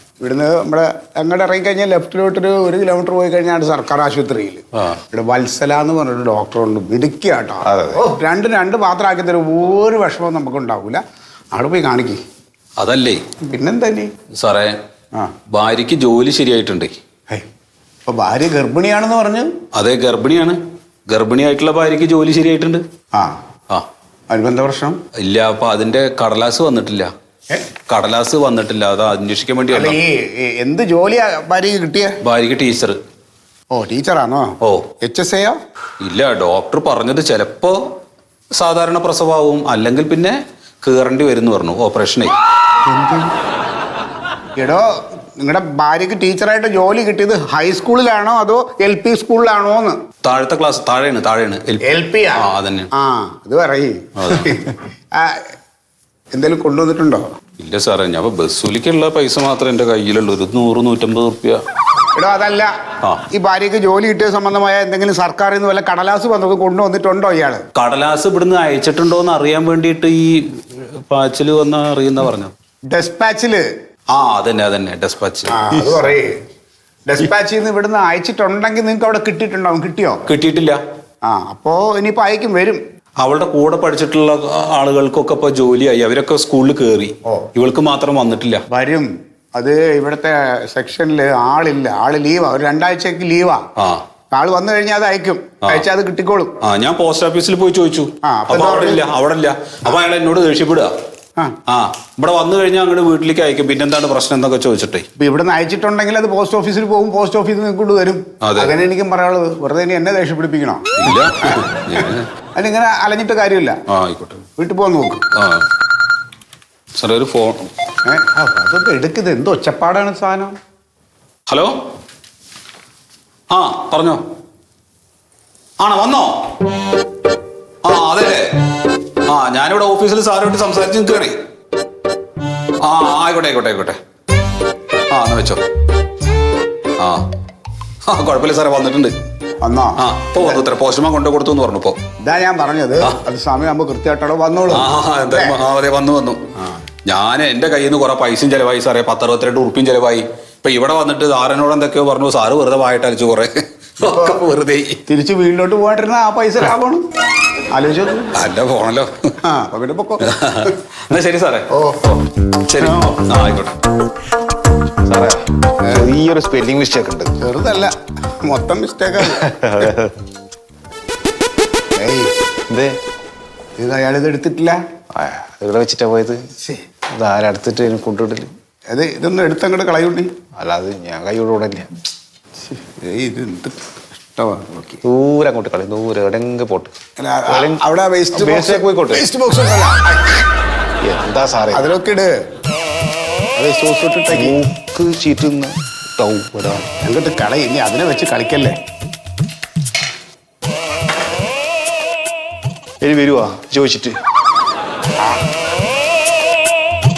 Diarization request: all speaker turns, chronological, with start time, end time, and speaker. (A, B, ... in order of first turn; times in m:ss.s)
0:00.2-0:11.0 A
0:07.6-0:08.0 B
0:11.5-0:12.2 A
0:12.8-0:13.2 C
0:13.5-0:14.1 A
0:14.4-0:14.8 C
0:15.5-0:17.0 C
0:18.1-0:19.5 A
0:19.7-0:22.8 C
0:24.3-0:25.0 A
0:25.2-0:27.1 C
0:27.9-0:30.0 C
0:29.7-0:32.2 A
0:32.2-0:33.0 C
0:33.7-0:35.6 A
0:36.0-0:37.8 C
0:38.6-0:42.3 C
0:42.9-0:43.3 A
0:44.6-0:44.8 A
0:45.4-0:50.0 A
0:50.2-0:51.8 C
0:51.9-0:54.6 A
0:52.4-0:52.9 C
0:54.2-0:54.5 C
0:56.3-0:57.3 A
0:57.6-1:01.6 C
1:02.2-1:02.7 A
1:03.3-1:07.6 A
1:07.8-1:12.5 C
1:12.9-1:13.6 A
1:14.1-1:15.9 C
1:15.5-1:16.3 A
1:17.0-1:20.2 A
1:20.3-1:20.8 C
1:21.2-1:22.8 A
1:23.2-1:28.6 C
1:28.7-1:33.6 A
1:34.3-1:36.5 A
1:36.6-1:40.9 C
1:38.2-1:39.1 A
1:41.7-1:45.1 C
1:45.2-1:51.6 A
1:48.4-1:48.7 C
1:51.0-1:52.3 C
1:52.6-1:53.8 A
1:53.9-1:54.5 C
1:54.6-1:55.2 A
1:55.4-1:55.7 C
1:57.0-1:57.7 C
1:58.0-2:00.6 A
2:01.5-2:01.7 C
2:03.5-2:04.2 C
2:05.8-2:06.4 C
2:07.8-2:08.5 C
2:09.3-2:11.4 C
2:12.8-2:14.0 C
2:15.1-2:15.6 C
2:17.0-2:17.2 C
2:18.1-2:19.1 C
2:19.6-2:20.6 A
2:20.0-2:22.0 C
2:22.2-2:25.6 A
2:24.7-2:26.4 C
2:27.1-2:35.0 C
2:34.0-2:34.4 A
2:35.1-2:37.0 A
2:37.7-2:38.3 A
2:38.4-2:39.4 C
2:39.5-2:40.2 A
2:40.2-2:41.7 C
2:41.7-2:42.2 A
2:42.7-2:43.8 C
2:45.0-2:47.4 B
2:47.4-2:49.5 A
2:49.3-2:50.2 B
2:52.0-2:52.3 A
2:53.8-2:54.8 A
2:55.1-2:56.4 B
2:57.1-2:58.5 B
2:58.9-3:00.3 A
3:00.6-3:01.9 B
3:02.7-3:03.8 A
3:04.3-3:05.0 A
3:05.0-3:06.9 B
3:07.2-3:10.4 A
3:07.5-3:09.2 B
3:11.0-3:11.9 B
3:11.7-3:12.3 A
3:13.6-3:14.6 A
3:14.3-3:16.9 B
3:17.0-3:18.8 A
3:23.0-3:24.2 B